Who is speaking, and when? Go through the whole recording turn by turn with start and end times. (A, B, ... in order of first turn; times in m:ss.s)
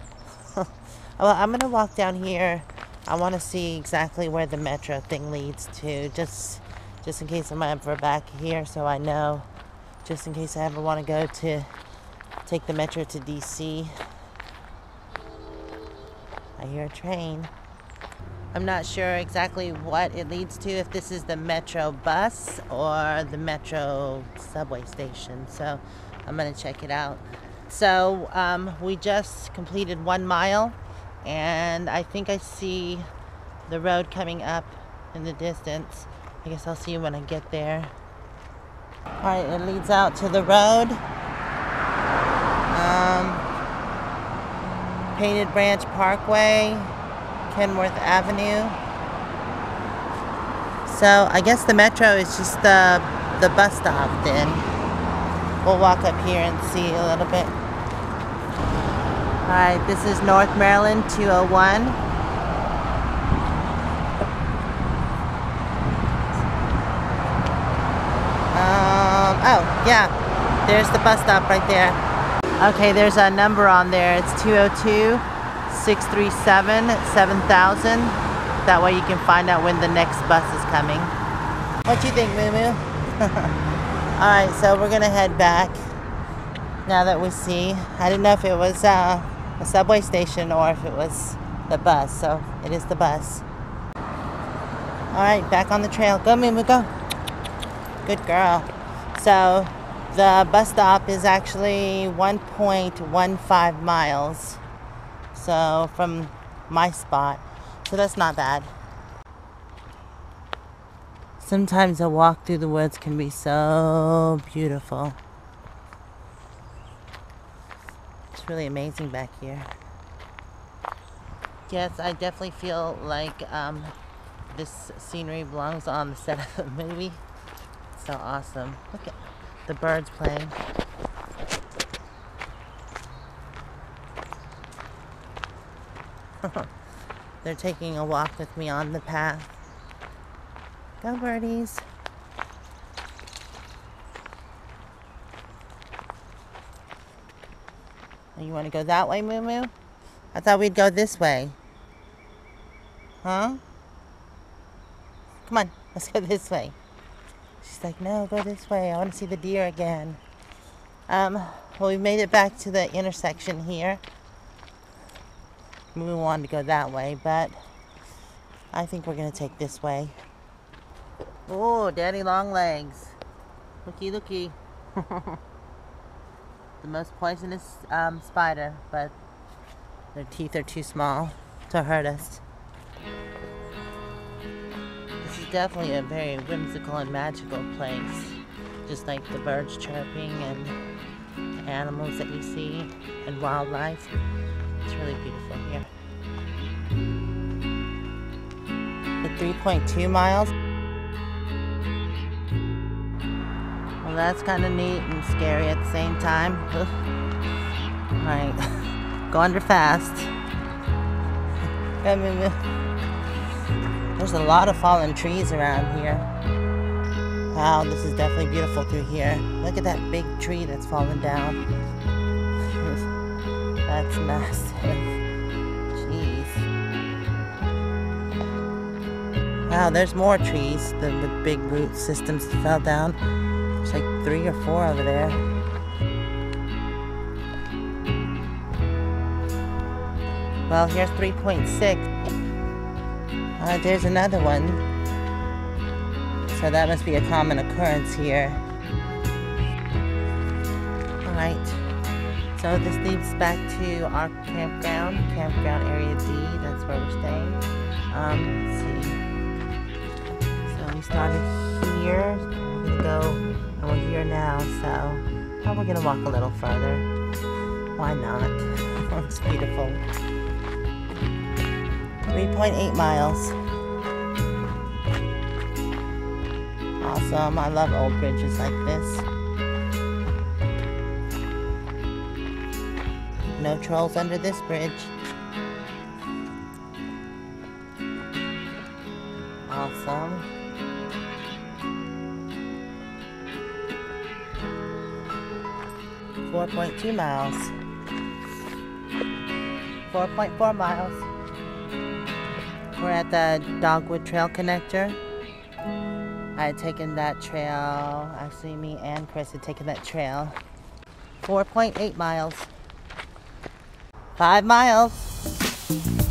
0:00.5-0:09.5 A
0:10.0-0:11.7 A
0:12.4-0:14.0 A
0:16.6-0:17.5 A
0:18.5-0:33.0 A
0:33.7-0:37.9 A
0:39.2-0:41.0 A
0:42.7-0:43.4 A
0:45.1-0:46.9 A
0:47.5-0:48.8 A
0:50.8-0:54.6 A
0:55.6-0:57.5 A
0:59.4-1:02.0 A
1:08.5-1:10.1 A
1:10.6-1:12.0 A
1:12.6-1:21.1 A
1:21.8-1:23.6 A
1:24.2-1:25.8 A
1:26.8-1:33.4 A
1:35.1-1:36.9 A
1:38.0-1:44.6 A
1:45.3-1:48.7 A
1:51.4-1:55.2 A
1:58.3-1:59.7 A
2:01.7-2:03.9 A
2:04.5-2:07.2 A
2:07.9-2:10.6 A
2:16.4-2:16.7 A
2:17.4-2:19.5 A
2:21.0-2:21.8 A
2:28.4-2:29.7 A
2:30.3-2:31.6 A
2:33.2-2:33.6 A
2:35.5-2:36.7 A
2:37.6-2:40.2 A
2:41.1-2:44.0 A
2:45.9-2:47.6 A
2:48.7-2:50.2 A
2:51.5-2:53.2 A
2:53.8-2:55.4 A
2:56.8-2:59.1 A
3:00.1-3:02.4 A
3:05.2-3:10.8 A
3:11.6-3:14.1 A
3:14.8-3:15.9 A
3:19.2-3:20.5 A
3:24.0-3:26.9 A
3:28.2-3:28.6 A
3:29.3-3:30.3 A
3:32.0-3:32.6 A
3:34.2-3:36.3 A
3:37.5-3:41.6 A
3:42.7-3:43.0 A
3:43.8-3:45.1 A
3:45.9-3:46.7 A
3:49.7-3:53.2 A
3:53.8-3:55.4 A
4:00.7-4:02.1 A
4:03.6-4:04.8 A
4:06.4-4:08.6 A
4:11.2-4:11.8 A
4:12.6-4:19.2 A
4:20.7-4:27.1 A
4:28.0-4:30.0 A
4:32.3-4:33.5 A
4:37.0-4:39.2 A
4:43.6-4:45.1 A
4:49.6-4:50.4 A
4:56.5-4:57.7 A
5:00.1-5:01.2 A
5:02.9-5:05.2 A
5:06.6-5:10.6 A
5:11.4-5:12.7 A
5:14.4-5:15.3 A